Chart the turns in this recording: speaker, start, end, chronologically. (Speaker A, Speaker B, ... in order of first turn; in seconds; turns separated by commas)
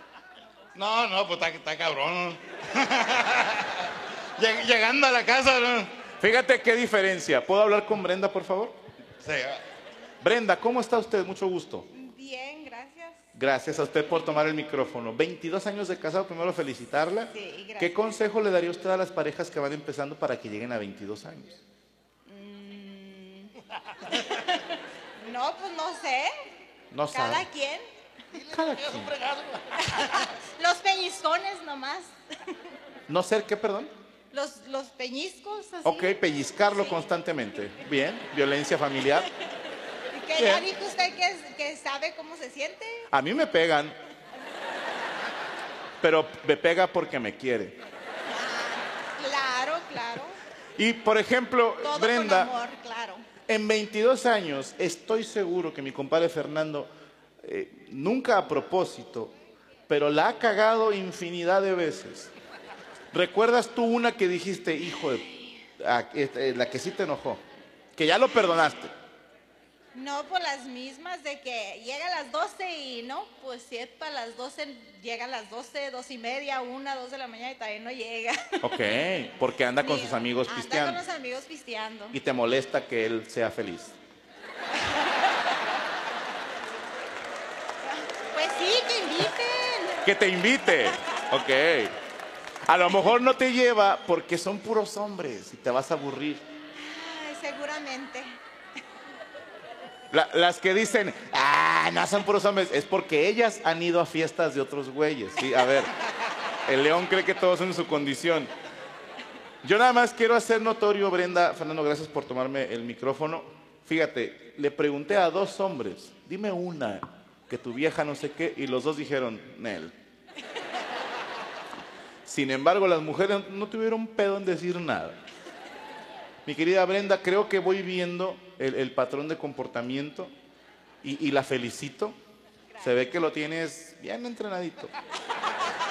Speaker A: 0.8-5.9, Speaker B: 6.2-8.8, Speaker A: 9.2-9.6, Speaker B: 10.2-11.9, Speaker C: 11.9-13.2, Speaker B: 13.3-21.6, Speaker C: 17.3-17.9, Speaker C: 22.3-23.5, Speaker C: 24.1-24.6, Speaker C: 25.2-26.3, Speaker B: 26.9-27.5, Speaker C: 27.1-27.8, Speaker B: 28.5-29.1, Speaker C: 29.9-32.1, Speaker B: 33.1-33.9, Speaker C: 34.3-36.1, Speaker B: 35.8-39.3, Speaker C: 40.1-43.0, Speaker B: 40.4-40.7, Speaker B: 43.1-44.0, Speaker B: 46.0-47.8, Speaker C: 48.3-50.4, Speaker B: 50.8-52.5, Speaker C: 51.8-53.2, Speaker B: 53.5-56.9, Speaker B: 57.4-59.3, Speaker B: 59.9-62.3, Speaker B: 63.1-67.4, Speaker B: 68.0-68.9, Speaker C: 69.9-78.7, Speaker B: 78.6-81.0, Speaker C: 79.8-82.2, Speaker B: 82.1-84.0, Speaker C: 88.3-90.1, Speaker B: 90.0-91.9, Speaker B: 92.7-96.4, Speaker C: 96.8-98.4, Speaker B: 100.1-105.9, Speaker B: 106.7-108.5, Speaker B: 109.6-120.0, Speaker B: 122.2-125.2, Speaker B: 126.5-130.3, Speaker B: 131.0-132.2, Speaker B: 132.8-134.9